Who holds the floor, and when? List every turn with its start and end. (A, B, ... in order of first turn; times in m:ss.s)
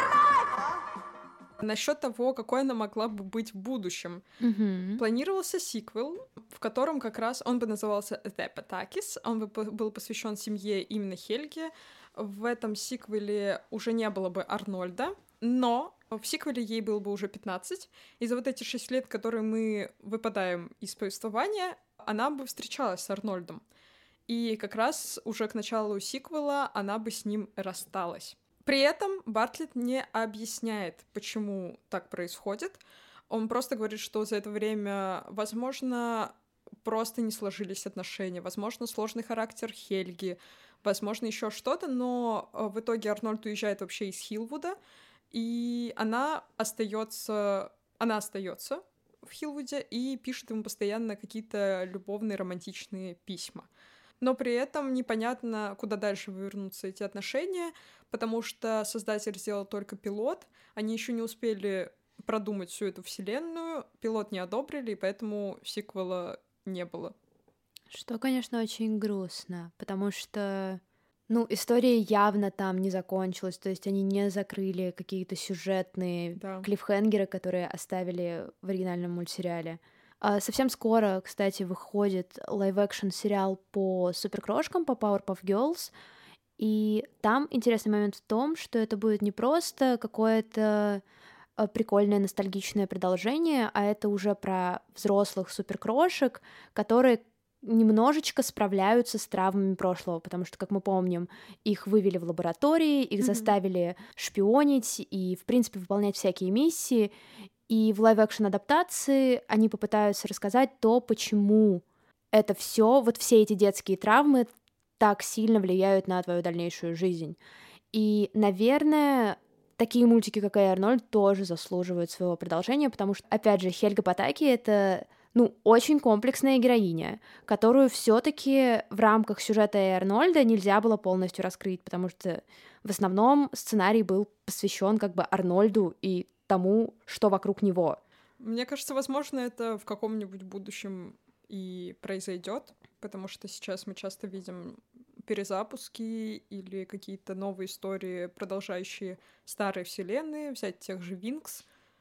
0:01.6-0:04.2 A
0:04.4-0:05.0 B
0:05.0-0:23.6 A
0:24.3-0:44.8 A
0:45.3-0:53.7 A
0:54.2-1:07.1 A
1:07.9-1:25.9 B
1:16.4-1:16.7 A
1:26.6-1:31.0 B
1:31.6-1:47.1 B
1:43.2-1:43.5 A
1:47.7-1:57.4 B
1:57.9-2:18.0 B
2:18.4-2:31.6 A